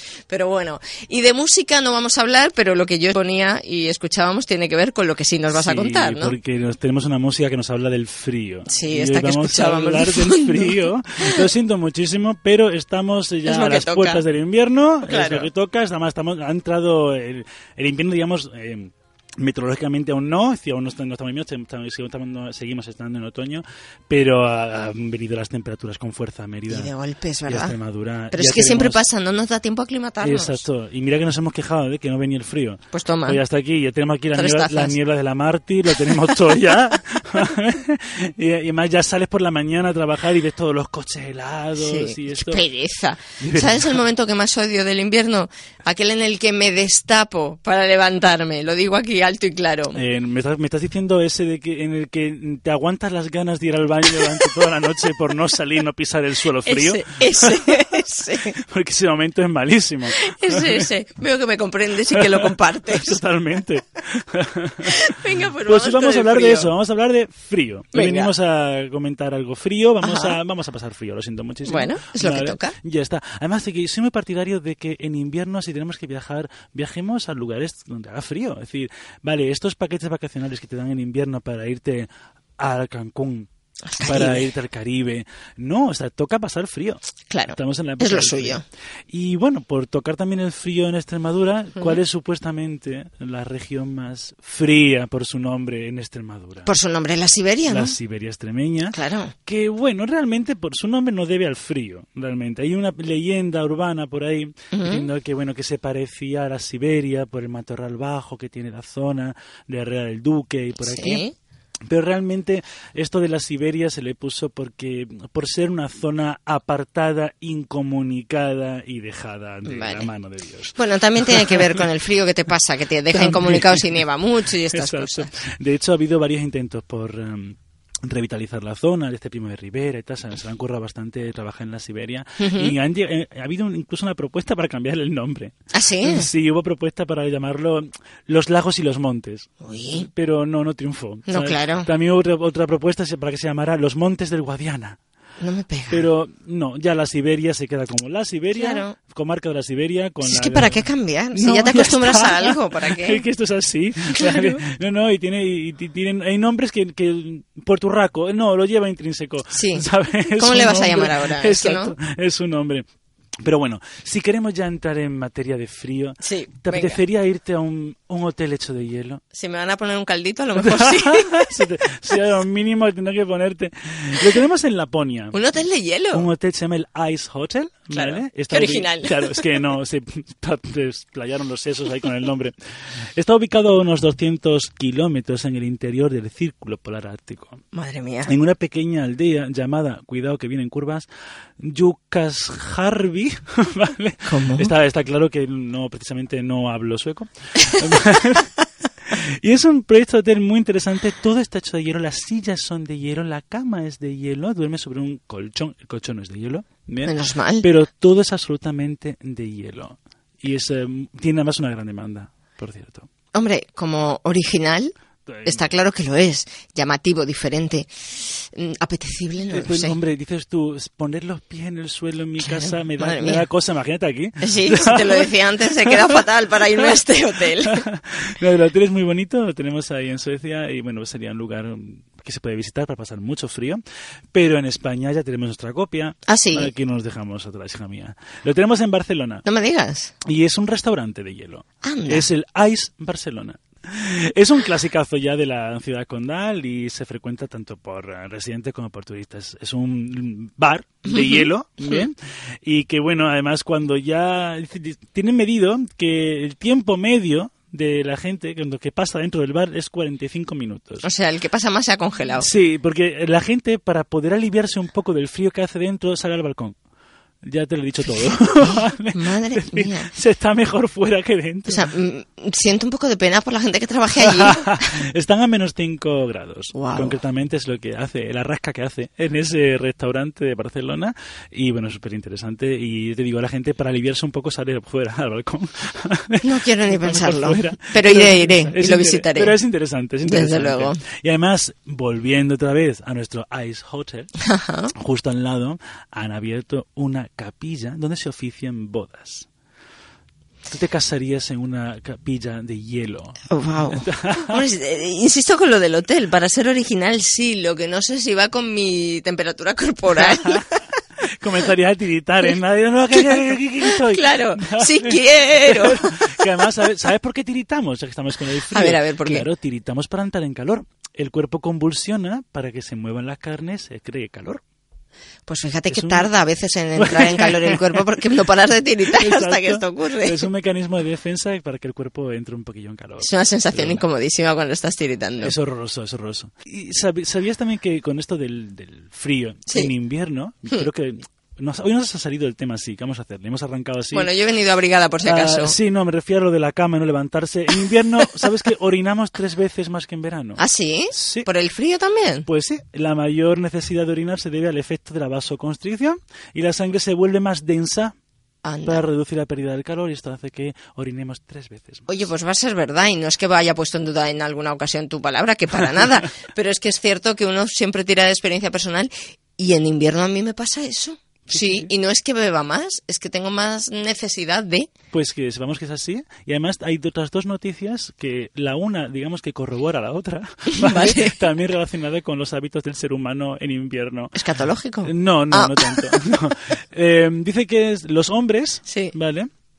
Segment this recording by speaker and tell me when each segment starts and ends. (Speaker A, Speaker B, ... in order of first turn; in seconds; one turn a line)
Speaker A: 0.3-6.3
Speaker B: 5.5-26.9
Speaker A: 8.7-11.4
Speaker A: 13.4-14.2
Speaker A: 15.1-15.5
Speaker A: 26.7-27.7
Speaker B: 27.4-29.0
Speaker A: 28.3-30.6
Speaker B: 30.2-42.6
Speaker A: 32.9-33.4
Speaker A: 34.3-35.0
Speaker A: 41.8-50.0
Speaker B: 43.4-44.0
Speaker B: 49.9-57.8
Speaker A: 56.6-58.5
Speaker B: 58.5-60.8
Speaker A: 60.1-63.2
Speaker B: 62.1-64.9
Speaker A: 64.9-66.7
Speaker B: 65.6-83.5
Speaker A: 67.9-68.3
Speaker A: 70.0-70.4
Speaker A: 71.6-72.7
Speaker A: 83.9-84.5
Speaker B: 84.0-96.7
Speaker A: 87.3-88.6
Speaker A: 96.7-98.0
Speaker B: 97.7-111.2
Speaker A: 98.9-99.3
Speaker A: 104.7-105.1
Speaker A: 110.8-111.3
Speaker B: 111.9-121.6
Speaker A: 119.7-120.1
Speaker A: 120.8-125.3
Speaker B: 123.1-124.0
Speaker B: 124.7-145.0
Speaker A: 132.4-132.7
Speaker A: 135.7-136.3
Speaker A: 139.6-140.1
Speaker A: 141.3-141.9
Speaker A: 145.4-146.1
Speaker B: 145.9-162.8
Speaker A: 148.5-148.9
Speaker A: 150.2-153.2
Speaker A: 154.1-154.6
Speaker A: 159.5-159.8
Speaker A: 160.4-161.9
Speaker B: 163.4-169.2
Speaker A: 166.2-167.0
Speaker A: 169.3-171.3
Speaker B: 170.5-175.4
Speaker A: 175.3-176.3
Speaker B: 176.1-182.5
Speaker A: 177.9-179.4
Speaker B: 183.1-187.6
Speaker A: 187.7-188.3
Speaker B: 188.2-191.1
Speaker B: 191.6-213.1
Speaker A: 194.3-194.7
Speaker A: 207.1-207.7
Speaker A: 213.3-214.9
Speaker B: 215.3-215.7
Speaker A: 215.4-220.0
Speaker B: 219.5-225.3
Speaker A: 222.4-223.4
Speaker A: 224.4-227.8
Speaker B: 225.8-226.2
Speaker B: 227.6-233.8
Speaker B: 234.3-239.4
Speaker A: 236.3-236.7
Speaker A: 239.4-240.1
Speaker B: 240.2-261.1
Speaker A: 241.8-242.2
Speaker A: 251.1-252.0
Speaker A: 261.0-262.5
Speaker B: 262.4-266.8
Speaker B: 267.4-271.9
Speaker A: 268.6-270.1
Speaker A: 271.7-274.8
Speaker B: 274.2-294.3
Speaker A: 276.7-277.2
Speaker A: 286.4-289.6
Speaker A: 290.2-291.0
Speaker A: 294.4-294.9
Speaker B: 295.0-299.5
Speaker B: 300.7-303.4
Speaker A: 303.5-310.6
Speaker B: 303.9-304.6
Speaker B: 310.1-310.6
Speaker B: 311.3-324.6
Speaker A: 313.1-316.0
Speaker A: 318.7-319.5
Speaker A: 325.4-330.4
Speaker B: 325.9-326.3
Speaker B: 326.9-328.0
Speaker B: 329.1-334.0
Speaker A: 333.2-335.5
Speaker B: 335.4-344.3
Speaker A: 344.1-345.7
Speaker B: 345.2-350.6
Speaker A: 350.6-352.4
Speaker B: 351.1-351.5
Speaker B: 352.4-358.1
Speaker A: 358.6-359.0
Speaker B: 358.9-362.1
Speaker A: 362.1-374.9
Speaker B: 371.5-371.9
Speaker B: 375.1-384.4
Speaker A: 380.8-381.4
Speaker A: 384.3-386.1
Speaker B: 385.0-389.5
Speaker A: 388.9-389.1